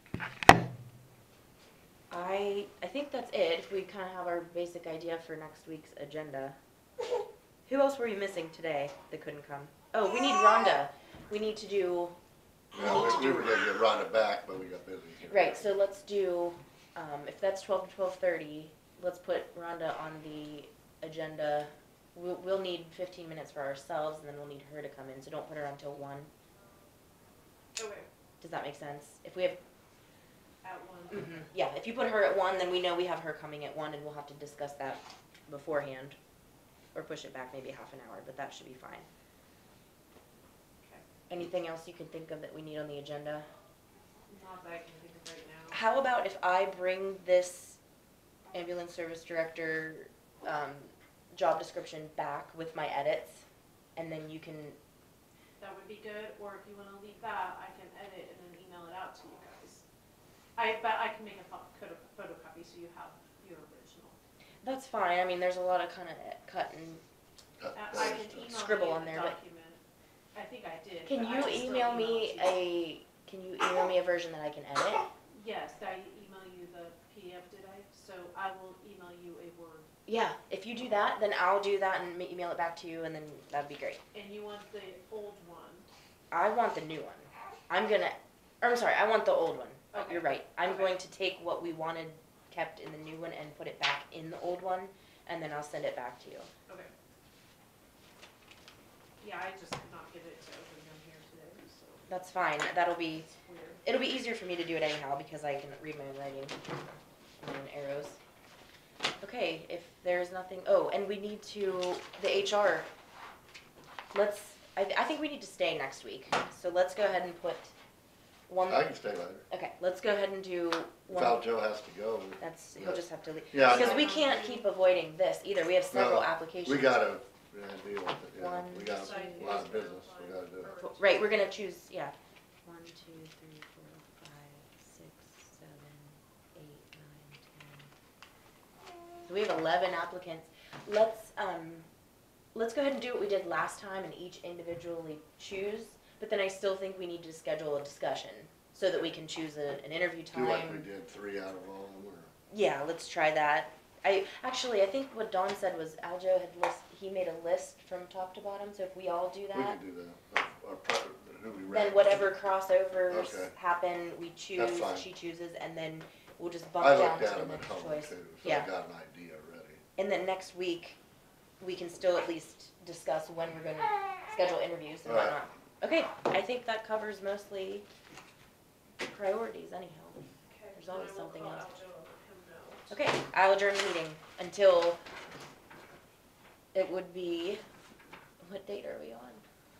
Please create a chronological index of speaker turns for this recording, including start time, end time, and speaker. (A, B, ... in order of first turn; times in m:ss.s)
0:02.1-0:06.6 A
0:07.6-0:12.2 A
0:12.8-0:15.7 B
0:12.8-0:13.4 A
0:15.3-0:26.3 A
0:27.8-0:28.1 C
0:28.4-0:29.6 A
0:30.6-0:31.3 C
0:31.1-0:36.2 A
0:36.9-0:39.0 A
0:41.3-0:43.4 A
0:44.3-0:45.8 C
0:45.7-0:47.8 A
0:48.5-0:53.4 A
0:54.0-0:54.8 A
0:55.6-0:59.8 C
1:00.6-1:04.2 C
1:04.6-1:07.0 A
1:07.6-1:08.4 B
1:07.7-1:09.8 C
1:08.4-1:09.4 A
1:10.3-1:12.6 C
1:11.0-1:15.1 A
1:15.3-1:19.9 C
1:20.1-1:24.0 A
1:24.1-1:25.9 C
1:26.3-1:36.5 A
1:29.9-1:31.0 C
1:39.2-1:42.0 C
1:42.1-1:46.5 A
1:43.3-1:43.8 C
1:47.4-1:48.2 A
1:49.2-1:52.9 A
1:54.1-1:57.7 A
1:58.5-1:59.0 A
1:58.7-1:59.4 B
1:59.5-2:01.5 A
2:01.1-2:04.2 B
2:02.4-2:07.0 A
2:03.5-2:04.7 C
2:05.9-2:10.7 B
2:08.3-2:09.6 A
2:08.8-2:11.5 C
2:10.8-2:12.1 A
2:12.6-2:17.9 A
2:19.2-2:21.9 A
2:22.5-2:30.9 A
2:30.3-2:32.3 B
2:32.5-2:39.8 A
2:39.5-2:42.2 B
2:41.7-2:48.7 A
2:43.1-2:43.5 B
2:44.6-2:45.1 B
2:46.8-2:49.8 B
2:50.0-2:51.0 A
2:51.6-2:57.8 A
2:55.0-2:55.4 B
2:59.0-3:00.2 A
3:00.5-3:02.9 C
3:00.7-3:01.7 A
3:02.9-3:05.0 A
3:06.7-3:07.6 A
3:08.4-3:09.4 A